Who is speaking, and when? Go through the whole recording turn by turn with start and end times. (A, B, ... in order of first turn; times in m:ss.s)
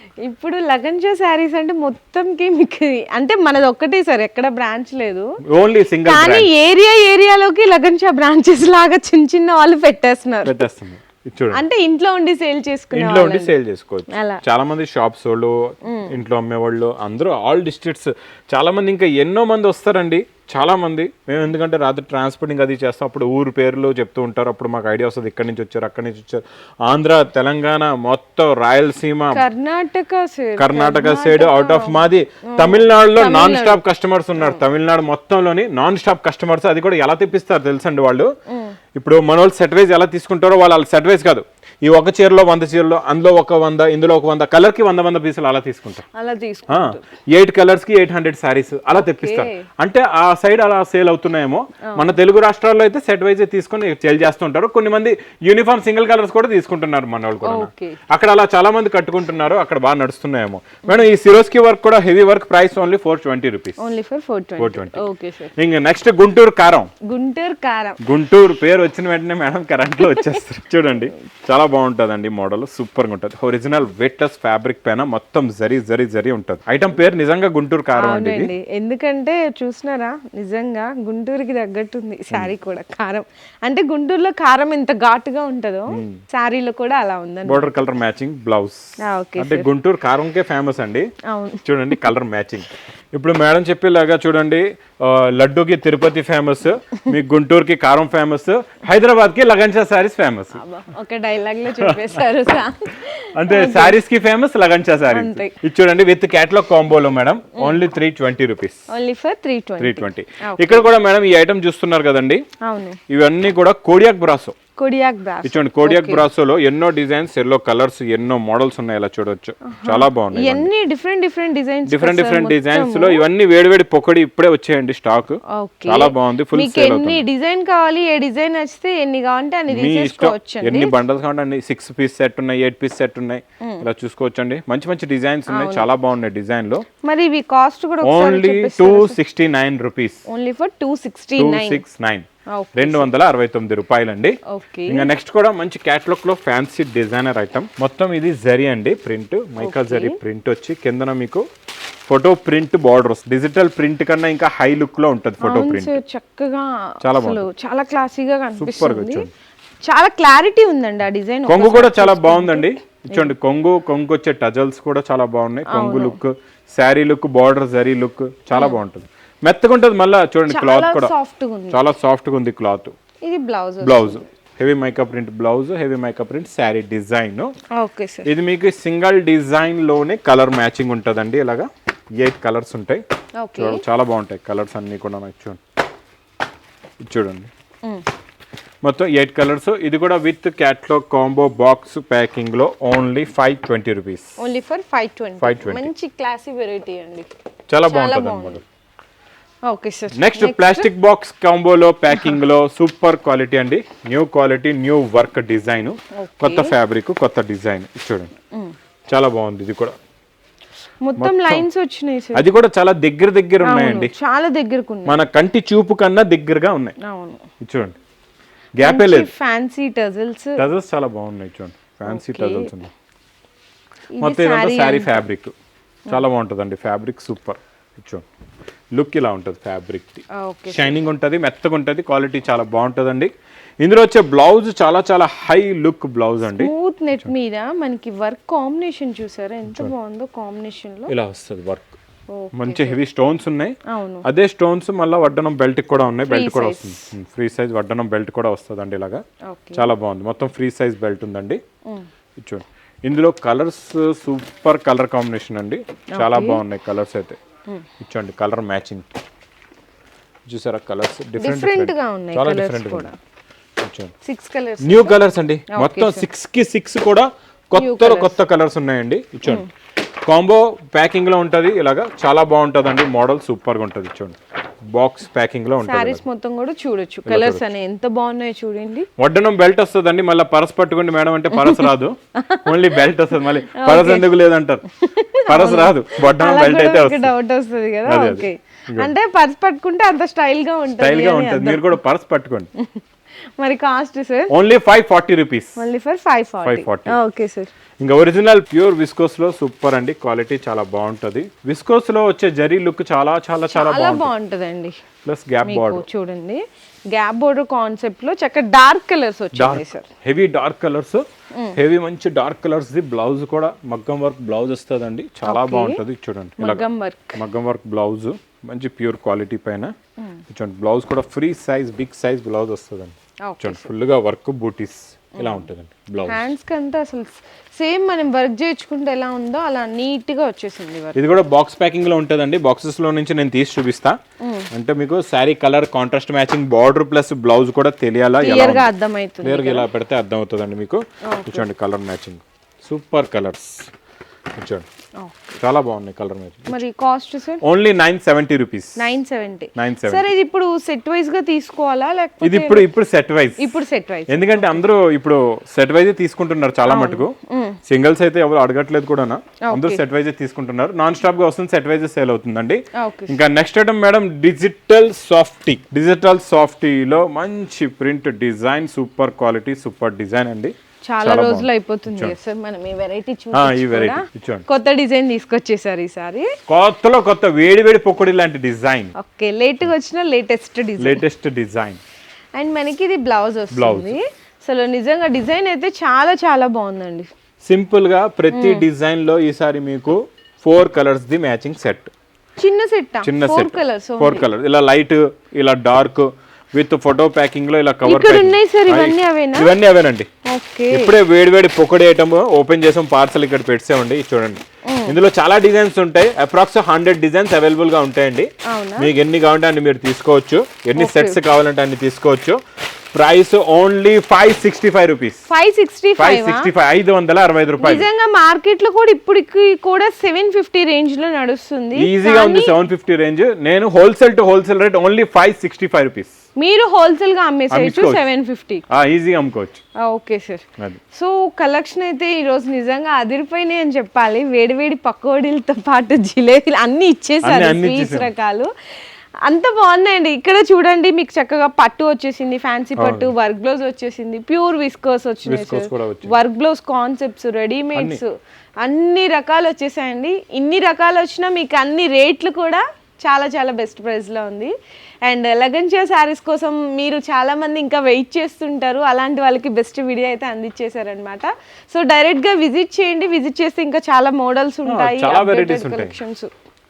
0:00.2-0:05.3 A
0:05.5-0:06.5 B
0:06.0-0:10.6 A
0:10.4-0:11.6 B
0:11.5-0:13.5 A
0:12.9-0:29.4 B
0:14.1-0:14.4 A
0:15.8-0:16.1 A
0:29.3-0:33.8 A
0:30.6-0:38.3 B
0:38.5-0:38.8 A
0:38.9-0:46.0 B
0:46.1-0:47.0 A
0:46.7-1:03.8 B
0:48.9-0:49.7 A
0:51.8-0:52.1 A
0:57.4-0:58.0 A
1:03.8-1:05.5 A
1:04.6-1:05.0 B
1:05.6-1:06.9 B
1:07.1-1:08.0 A
1:08.0-1:18.5 B
1:18.0-1:27.7 A
1:25.9-1:26.2 B
1:27.4-1:31.1 B
1:29.0-1:29.7 A
1:31.2-1:31.6 A
1:31.6-1:40.6 B
1:40.5-1:44.0 A
1:41.8-1:42.1 B
1:43.4-1:48.9 B
1:45.1-1:45.6 A
1:47.6-1:47.8 A
1:48.9-1:50.9 A
1:49.8-1:52.4 B
1:52.6-1:53.0 A
1:53.1-1:54.6 B
1:54.8-1:56.2 A
1:55.4-2:00.7 B
1:59.6-2:03.2 A
2:01.9-2:07.2 B
2:05.5-2:10.9 A
2:09.7-2:16.8 B
2:15.5-2:15.9 A
2:17.0-2:19.2 A
2:18.0-2:20.2 B
2:20.3-2:21.8 A
2:21.4-2:31.4 B
2:22.5-2:23.1 A
2:24.4-2:25.1 A
2:29.6-2:30.2 A
2:32.1-2:36.0 B
2:35.4-2:39.3 A
2:37.0-2:37.5 B
2:38.6-2:39.3 B
2:39.9-2:43.3 A
2:41.5-2:51.1 B
2:45.7-2:46.2 A
2:50.5-2:51.8 A
2:51.7-2:52.9 B
2:53.2-2:54.2 A
2:53.8-2:57.5 B
2:57.7-2:58.3 A
2:58.2-3:03.0 B
3:03.4-3:03.8 A
3:03.6-3:05.6 B
3:07.0-3:07.5 B
3:08.8-3:14.3 B
3:14.4-3:17.3 A
3:15.4-3:15.9 B
3:17.7-3:18.6 B
3:17.9-3:18.6 A
3:19.6-3:20.9 A
3:20.1-3:28.3 B
3:26.1-3:26.7 A
3:29.1-3:30.0 B
3:31.0-3:32.5 A
3:31.2-3:31.6 B
3:32.3-3:34.1 B
3:33.6-3:35.2 A
3:35.0-3:36.9 B
3:37.0-3:37.4 A
3:37.6-3:38.0 B
3:38.8-3:39.3 B
3:38.8-3:40.6 A
3:40.6-3:42.9 B
3:42.1-3:42.7 A
3:44.1-3:45.2 A
3:44.2-3:45.5 B
3:46.1-3:48.2 B
3:48.9-3:56.7 B
3:50.3-3:51.0 A
3:56.5-4:01.1 A
4:01.1-4:02.0 B
4:02.3-4:03.0 A
4:02.5-4:09.2 B
4:03.9-4:04.2 A
4:06.3-4:07.1 A
4:09.5-4:09.9 A
4:09.7-4:11.6 B
4:12.4-4:17.4 B
4:16.1-4:16.6 A
4:18.0-4:19.2 B
4:20.5-4:23.1 B
4:21.4-4:23.1 A
4:23.8-4:24.1 B
4:24.2-4:26.2 A
4:24.8-4:29.6 B
4:27.8-4:28.4 A
4:30.2-4:34.4 B
4:34.9-4:36.2 B
4:35.8-4:39.1 A
4:37.2-4:37.6 B
4:39.2-4:44.8 B
4:41.5-4:43.0 A
4:43.6-4:44.3 A
4:45.0-4:52.0 A
4:45.5-4:47.3 B
4:48.0-4:49.1 B
4:51.0-4:52.7 B
4:53.6-4:54.5 A
4:54.5-4:55.8 B
4:55.8-4:57.7 A
4:56.6-4:57.2 B
4:58.0-5:04.3 B
5:03.7-5:05.0 A
5:05.2-5:06.1 B
5:05.6-5:10.1 A
5:09.5-5:19.9 B
5:15.4-5:16.0 A
5:16.6-5:17.4 A
5:20.5-5:26.4 B
5:23.4-5:23.9 A
5:25.4-5:25.6 A
5:26.3-5:31.2 A
5:31.1-5:34.2 B
5:34.4-5:34.7 A
5:34.7-5:38.9 B
5:38.4-5:39.8 A
5:39.4-5:43.9 B
5:41.2-5:41.6 A
5:44.5-5:44.9 B
5:45.2-5:45.6 A
5:45.6-5:46.8 B
5:46.7-5:47.6 A
5:47.6-5:49.0 B
5:49.0-5:52.9 A
5:49.7-5:50.3 B
5:52.4-5:53.6 B
5:53.6-5:54.8 A
5:54.3-5:57.3 B
5:56.9-5:57.8 A
5:57.8-6:12.4 B
5:59.6-6:00.0 A
6:03.0-6:03.4 A
6:11.0-6:16.5 A
6:13.5-6:14.6 B
6:16.7-6:19.1 B
6:19.1-6:21.2 A
6:21.0-6:22.0 B
6:22.6-6:27.3 A
6:23.7-6:24.2 B
6:27.6-6:32.1 B
6:28.5-6:28.8 A
6:32.6-6:34.5 A
6:33.2-6:40.3 B
6:38.0-6:39.7 A
6:40.4-6:41.1 A
6:40.9-6:52.6 B
6:44.8-6:45.2 A
6:48.6-6:49.1 A
6:51.0-6:51.4 A
6:53.1-6:55.4 B
6:55.5-6:56.7 A
6:56.2-6:58.1 B
6:57.8-7:02.7 A
7:01.9-7:06.4 B
7:06.6-7:08.8 A
7:07.7-7:08.2 B
7:08.9-7:09.8 B
7:10.0-7:18.7 A
7:17.4-7:18.3 B
7:19.4-7:28.3 A
7:23.0-7:23.3 B
7:25.4-7:26.3 B
7:27.9-7:28.2 B
7:28.8-7:34.7 A
7:35.2-7:46.5 A
7:44.8-7:46.2 B